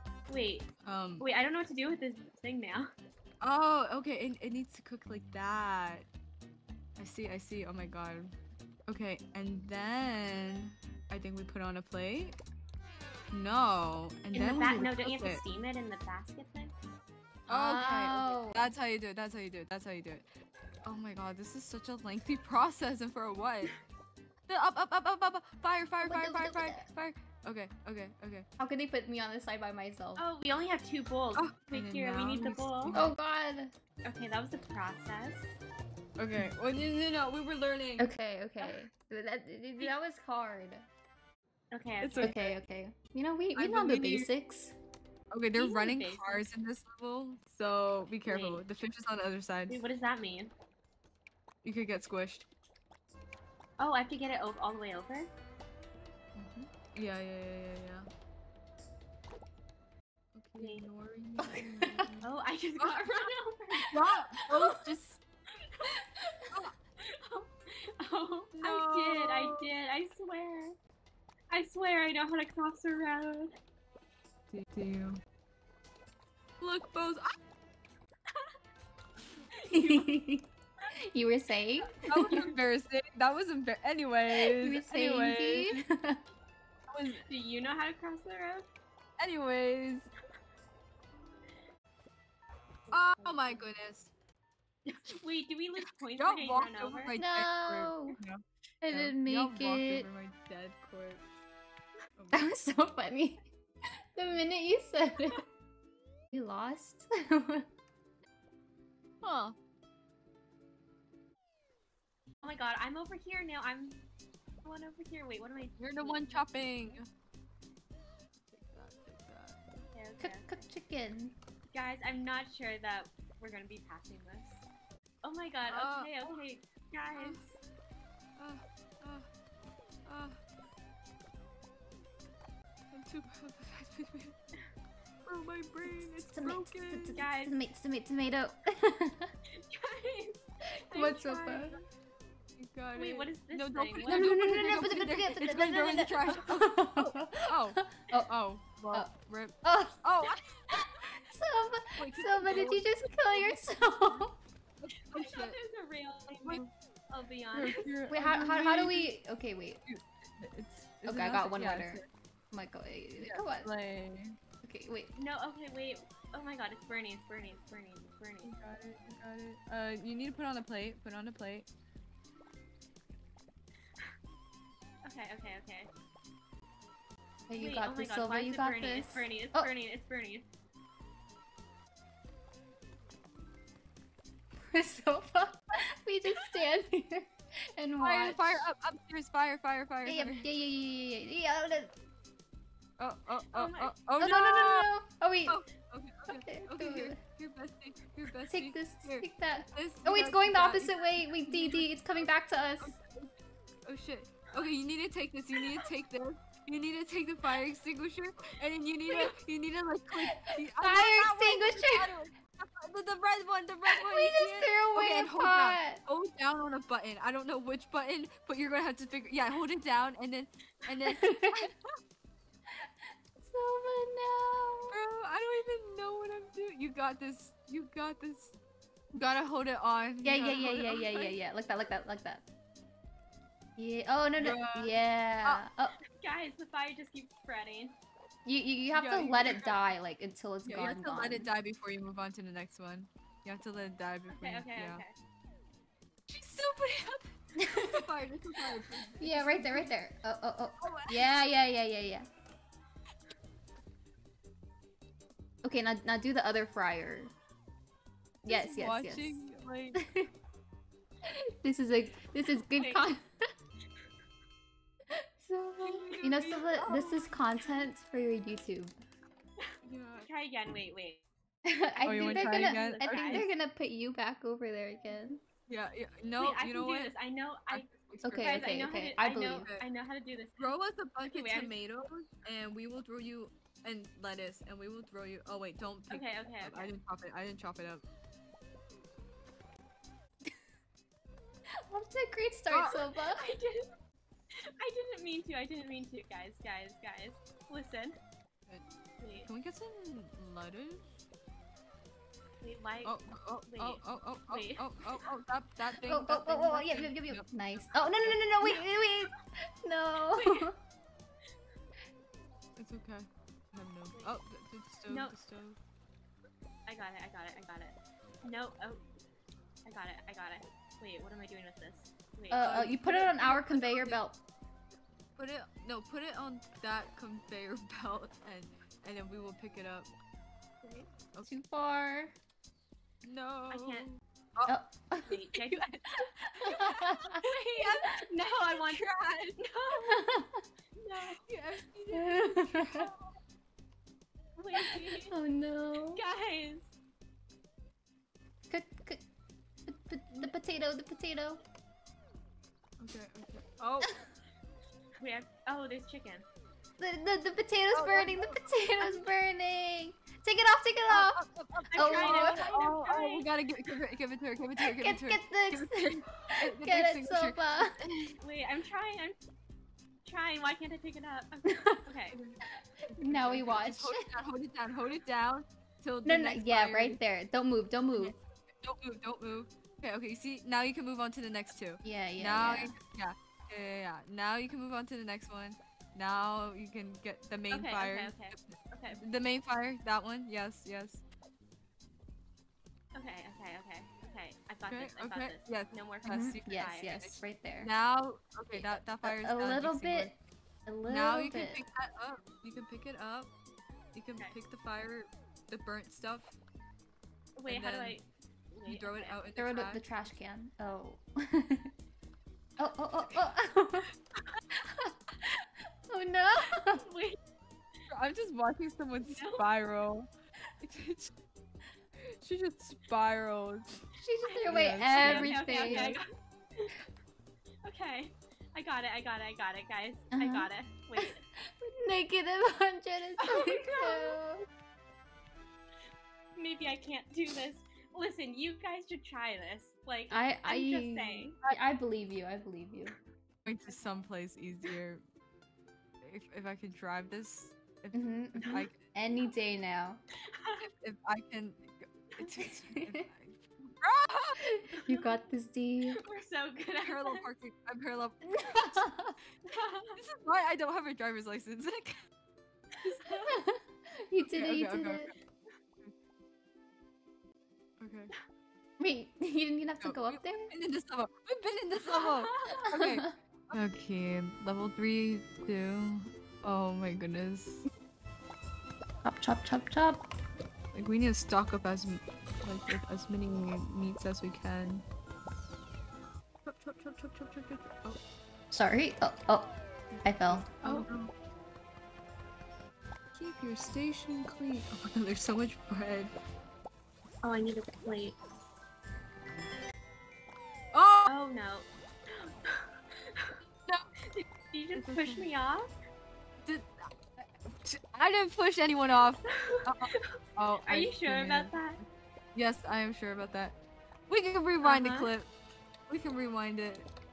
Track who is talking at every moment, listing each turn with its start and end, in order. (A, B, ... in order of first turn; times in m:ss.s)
0:00.3-0:02.9 A
0:00.8-0:01.2 B
0:03.4-0:06.1 B
0:07.0-0:08.3 B
0:08.9-0:12.4 B
0:13.3-0:15.4 B
0:14.3-0:16.7 A
0:17.5-0:18.7 C
0:17.5-0:20.2 B
0:20.8-0:23.7 B
0:24.5-0:28.5 B
0:26.0-0:26.9 C
0:28.6-0:30.2 C
0:30.2-0:33.0 A
0:31.3-0:33.2 B
0:32.9-0:33.7 C
0:34.0-0:35.6 A
0:36.2-0:38.1 B
0:38.0-0:40.9 C
0:38.6-0:38.9 A
0:41.7-0:42.5 A
0:42.0-0:42.4 B
0:42.2-0:44.7 C
0:43.5-0:44.3 B
0:45.3-0:49.8 B
0:45.5-0:46.5 A
0:48.2-0:48.6 A
0:49.7-0:50.5 A
0:51.6-0:52.5 B
0:53.8-0:55.3 A
0:56.4-0:58.0 B
1:00.3-1:02.3 B
1:00.6-1:00.8 A
1:01.4-1:02.1 C
1:02.2-1:03.9 A
1:02.8-1:03.3 B
1:03.9-1:05.2 B
1:04.0-1:04.8 C
1:05.6-1:05.9 A
1:07.0-1:10.8 A
1:08.5-1:09.7 B
1:11.5-1:13.5 A
1:14.5-1:15.2 B
1:16.6-1:17.2 B
1:19.5-1:20.1 A
1:19.7-1:20.5 C
1:21.1-1:22.5 C
1:22.1-1:25.8 B
1:24.3-1:26.2 C
1:26.9-1:27.2 B
1:27.3-1:28.7 A
1:29.2-1:30.1 B
1:32.9-1:33.7 A
1:32.9-1:34.1 B
1:34.9-1:35.1 B
1:35.0-1:37.2 A
1:35.8-1:41.2 B
1:37.2-1:38.2 C
1:38.8-1:40.1 C
1:42.2-1:42.5 B
1:42.3-1:43.5 C
1:44.1-1:45.4 C
1:46.3-1:47.6 C
1:49.2-1:49.6 B
1:52.4-1:54.0 A
1:54.6-1:57.0 A
1:55.8-1:57.1 B
1:58.5-1:59.8 B
1:59.9-2:00.5 A
2:00.2-2:01.4 C
2:01.7-2:04.6 A
2:05.2-2:07.5 A
2:05.7-2:06.4 B
2:07.1-2:07.4 B
2:08.4-2:09.3 B
2:10.0-2:10.4 B
2:12.9-2:14.3 B
2:15.2-2:17.2 B
2:15.8-2:19.3 C
2:17.1-2:17.6 A
2:19.5-2:21.9 A
2:20.9-2:21.8 C
2:22.6-2:31.1 B
2:22.9-2:24.4 A
2:24.0-2:28.3 C
2:29.6-2:30.0 C
2:30.7-2:34.3 C
2:31.9-2:34.2 B
2:34.8-2:35.6 B
2:34.9-2:38.0 A
2:37.5-2:39.1 B
2:38.1-2:39.8 C
2:39.8-2:42.1 B
2:41.0-2:42.0 C
2:42.5-2:43.7 C
2:43.2-2:44.4 B
2:44.6-2:45.1 C
2:45.1-2:48.5 A
2:48.4-2:51.7 B
2:55.0-2:55.9 A
2:57.5-2:59.7 C
2:57.6-3:00.4 A
3:04.7-3:08.7 C
3:08.0-3:10.4 B
3:10.0-3:11.9 C
3:13.0-3:14.9 B
3:13.5-3:14.0 A
3:14.2-3:15.6 C
3:15.4-3:23.3 B
3:16.3-3:17.2 C
3:18.5-3:23.0 C
3:23.8-3:41.9 B
3:30.2-3:32.2 C
3:33.9-3:36.0 C
3:41.1-3:41.6 C
3:42.8-3:45.0 C
3:44.9-3:48.6 B
3:49.1-3:51.4 B
3:50.2-3:52.4 C
3:53.8-3:56.0 C
3:54.4-3:55.7 B
3:56.0-3:58.0 A
3:58.4-4:01.5 C
3:58.9-3:59.9 B
4:00.6-4:05.0 B
4:04.3-4:05.1 A
4:06.3-4:09.9 B
4:07.6-4:08.0 C
4:09.2-4:12.3 C
4:10.8-4:11.3 B
4:15.6-4:17.3 C
4:18.4-4:19.4 C
4:18.5-4:20.0 B
4:19.9-4:20.3 C
4:21.2-4:23.2 C
4:22.6-4:23.1 A
4:25.1-4:28.9 C
4:25.8-4:26.5 A
4:25.9-4:27.9 B
4:29.6-4:31.2 A
4:29.8-4:30.3 B
4:31.6-4:35.4 C
4:32.0-4:33.4 B
4:32.3-4:33.5 A
4:35.7-4:37.2 B
4:36.4-4:41.7 A
4:37.7-4:38.7 B
4:38.2-4:39.7 C
4:40.6-4:48.0 B
4:46.1-4:46.9 A
4:51.9-4:53.5 C
4:52.7-4:53.1 B
4:53.3-4:53.9 A
4:54.5-4:58.2 A
4:59.2-4:59.5 A
4:59.4-5:01.1 B
5:02.6-5:03.1 A
5:03.0-5:07.5 B
5:03.6-5:05.3 A
5:06.0-5:10.7 C
5:10.3-5:10.7 A
5:12.8-5:15.8 B
5:15.1-5:15.4 A
5:16.9-5:19.0 A
5:19.8-5:22.8 A
5:22.5-5:24.4 C
5:22.5-5:24.2 B
5:25.4-5:30.1 B
5:30.8-5:31.2 A
5:31.2-5:31.6 B
5:31.4-5:32.3 C
5:33.2-5:34.8 B
5:33.7-5:34.1 A
5:34.7-5:35.3 C
5:35.3-5:36.3 A
5:35.3-5:39.6 B
5:36.6-5:37.4 C
5:37.5-5:40.3 A
5:40.0-5:40.6 C
5:41.0-5:41.4 A
5:41.4-5:43.2 B
5:42.1-5:43.1 C
5:44.6-5:45.3 A
5:44.8-5:46.2 C
5:46.0-5:46.9 A
5:48.7-5:49.2 C
5:49.8-5:51.6 C
5:53.0-5:54.2 B
5:55.2-5:56.4 A
5:57.0-6:01.4 C
5:57.9-5:59.3 B
6:01.1-6:08.4 B
6:01.9-6:03.5 A
6:01.9-6:02.7 C
6:04.8-6:08.0 C
6:08.4-6:09.4 A
6:10.2-6:12.4 A
6:11.6-6:12.1 C
6:12.3-6:17.2 B
6:12.7-6:14.3 C
6:16.2-6:18.3 C
6:18.1-6:31.2 B
6:22.0-6:23.0 C
6:27.7-6:29.2 A
6:33.1-6:37.2 A
6:34.8-6:40.3 B
6:36.3-6:37.9 C
6:38.7-6:40.3 C
6:40.8-6:41.8 C
6:41.0-6:43.5 B
6:44.1-6:46.6 B
6:47.6-6:49.4 A
6:47.7-6:48.2 B
6:48.8-6:50.1 B
6:49.6-6:51.9 C
6:52.8-6:54.1 C
6:53.0-6:53.5 B
6:54.7-6:57.1 C
6:56.9-6:57.4 A
6:58.1-7:00.3 B
6:59.2-6:59.7 A
7:00.8-7:01.3 B
7:02.4-7:04.0 B
7:04.2-7:06.2 C
7:04.4-7:06.9 A
7:04.6-7:06.2 B
7:07.8-7:11.4 A
7:10.3-7:14.6 C
7:13.4-7:14.4 A
7:16.6-7:21.6 A
7:20.3-7:23.1 C
7:23.6-7:25.2 B
7:26.2-7:29.0 B
7:28.1-7:30.2 C
7:28.6-7:28.8 A
7:30.5-7:30.8 A
7:30.8-7:34.6 B
7:32.5-7:33.2 C
7:34.6-7:36.2 C
7:34.9-7:35.3 A
7:36.2-7:37.4 A
7:36.8-7:39.2 B
7:38.5-7:39.3 C
7:39.7-7:40.2 A
7:40.2-7:42.1 B
7:42.9-7:43.6 A
7:43.0-7:43.3 B
7:43.4-7:45.3 C
7:44.5-7:45.3 B
7:48.0-7:48.3 B
7:49.0-7:50.7 C
7:50.0-7:57.8 B
7:52.0-7:52.8 A
7:52.9-7:53.3 C
7:59.2-8:00.2 C
8:00.9-8:05.0 B
8:06.6-8:08.2 B
8:08.7-8:09.7 C
8:10.1-8:11.3 B
8:10.2-8:10.7 C
8:10.8-8:11.1 A
8:13.3-8:16.3 B
8:17.4-8:18.4 A
8:20.9-8:21.3 B
8:21.2-8:23.6 A
8:24.2-8:25.9 A
8:24.9-8:25.5 B
8:26.6-8:31.8 B
8:29.4-8:32.0 A
8:32.5-8:33.8 B
8:34.3-8:35.5 B
8:34.8-8:35.3 A
8:36.1-8:37.1 B